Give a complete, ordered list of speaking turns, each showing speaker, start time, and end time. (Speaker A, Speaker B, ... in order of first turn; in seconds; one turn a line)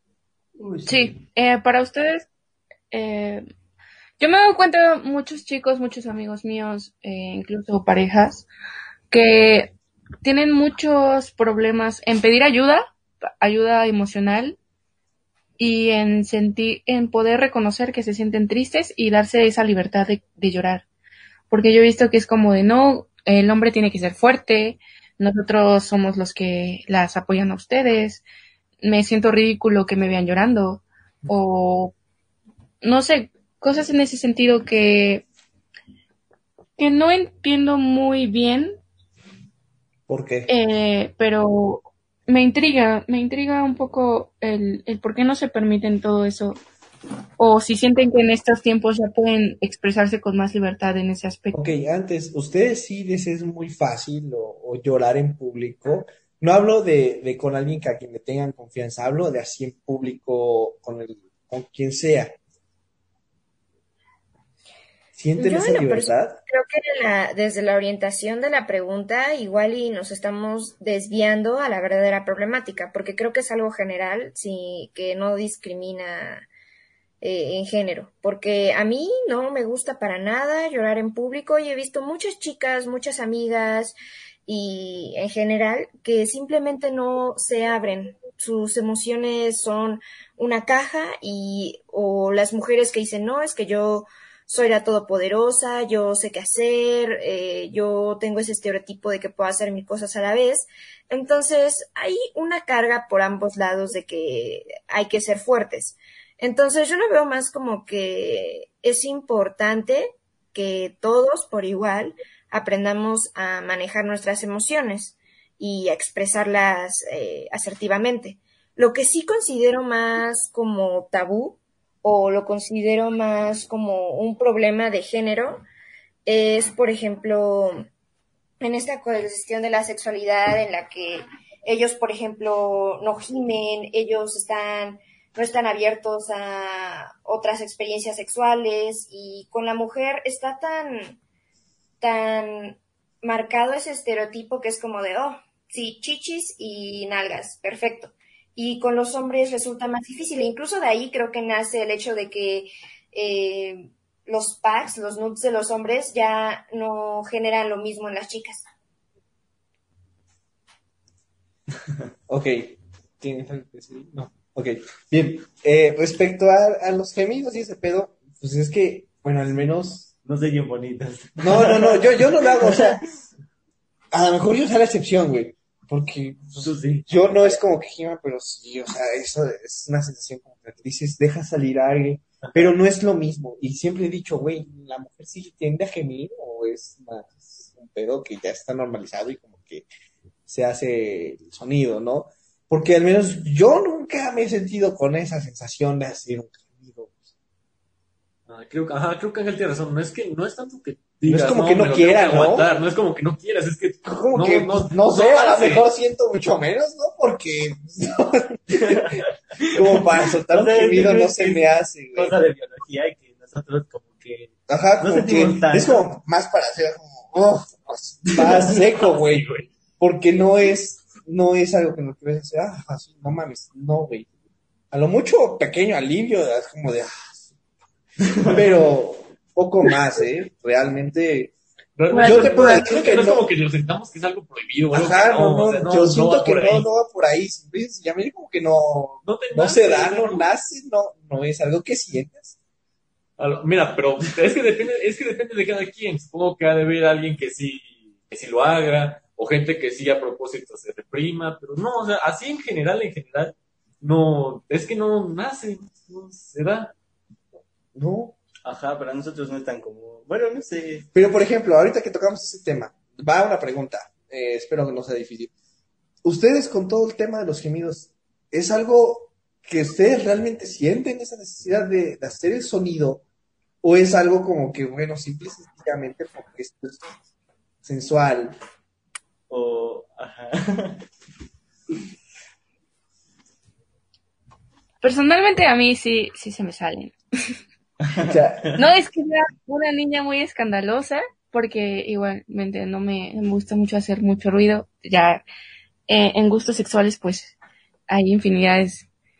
Speaker A: 0.6-1.2
Speaker B: 0.9-2.3
Speaker B: 2.9-3.4
Speaker B: 4.2-8.5
Speaker B: 9.1-9.7
Speaker B: 10.2-14.6
Speaker B: 15.6-20.8
Speaker B: 21.5-28.2
Speaker B: 28.8-31.9
Speaker B: 32.8-35.2
Speaker B: 36.8-38.8
Speaker C: 40.1-40.5
Speaker B: 40.5-46.6
Speaker B: 47.4-51.6
Speaker C: 51.5-62.4
Speaker C: 65.2-66.4
Speaker D: 65.4-76.5
Speaker D: 77.2-125.6
Speaker D: 126.3-127.9
Speaker D: 128.6-141.2
Speaker D: 142.0-158.7
Speaker C: 162.3-170.1
Speaker A: 170.2-173.1
Speaker C: 171.4-173.0
Speaker C: 174.1-189.8
Speaker A: 176.6-177.1
Speaker C: 190.5-197.2
Speaker E: 198.5-205.9
Speaker C: 201.3-202.7
Speaker C: 204.1-209.2
Speaker A: 208.8-216.1
Speaker C: 209.7-212.4
Speaker C: 214.7-219.5
Speaker E: 219.0-219.7
Speaker C: 220.0-224.3
Speaker C: 224.9-227.4
Speaker A: 228.2-228.6
Speaker C: 228.4-231.5
Speaker E: 232.0-236.9
Speaker B: 232.1-233.0
Speaker C: 232.2-233.5
Speaker C: 234.9-242.6
Speaker E: 239.2-240.5
Speaker E: 243.4-256.9
Speaker C: 257.9-258.4
Speaker A: 258.6-261.1
Speaker C: 261.1-265.5
Speaker C: 266.2-273.2
Speaker C: 273.8-277.1
Speaker C: 277.8-278.6
Speaker A: 279.5-281.1
Speaker B: 285.0-287.5
Speaker A: 288.0-288.9
Speaker C: 288.2-288.8
Speaker B: 288.8-295.4
Speaker B: 296.1-297.6
Speaker B: 298.1-299.1